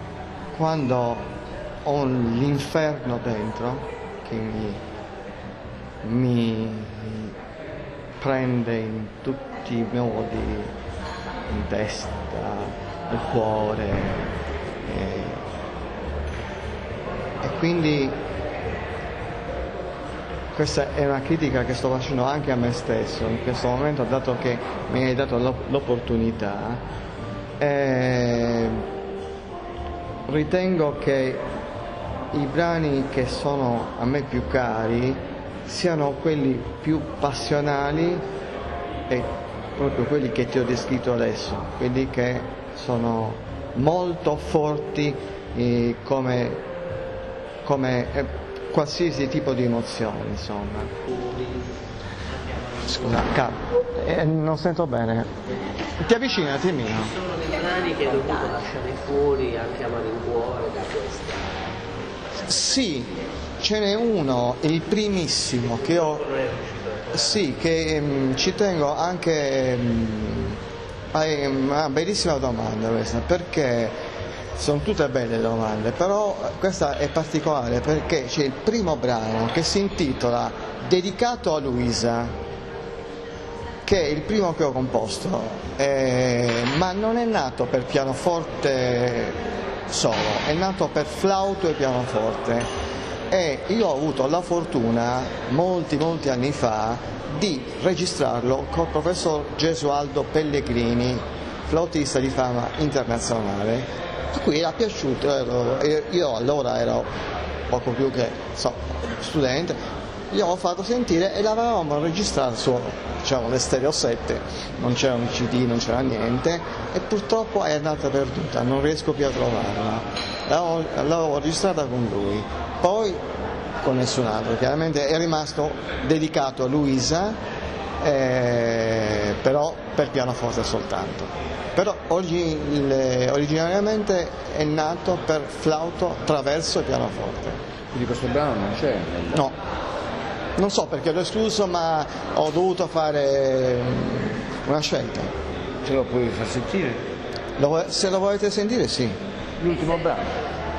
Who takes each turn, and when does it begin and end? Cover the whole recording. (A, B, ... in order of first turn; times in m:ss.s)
0:00.5-0:01.3 A
0:01.8-0:04.8 A
0:06.0-0:07.4 A
0:08.2-0:10.7 A
0:11.5-0:15.5 A
0:17.4-0:18.2 A
0:20.5-0:26.8 A
0:27.6-0:28.9 A
0:30.3-0:31.5 A
0:32.3-0:38.3 A
0:39.1-0:46.7 A
0:47.6-0:51.0 A
0:51.1-0:51.6 B
0:52.7-0:53.0 B
0:52.9-0:55.3 A
0:56.0-0:57.1 A
0:57.1-1:01.6 B
1:02.4-1:06.3 A
1:06.1-1:07.2 B
1:07.1-1:10.6 A
1:11.1-1:14.0 A
1:14.6-1:22.4 A
1:23.8-1:32.7 A
1:33.3-1:47.1 A
1:47.7-1:49.8 A
1:50.3-2:03.2 A
2:03.8-2:07.4 A
2:08.0-2:17.6 A
2:17.9-2:19.4 C
2:20.6-2:25.3 A
2:25.8-2:27.0 C
2:27.6-2:29.2 A
2:29.6-2:30.3 C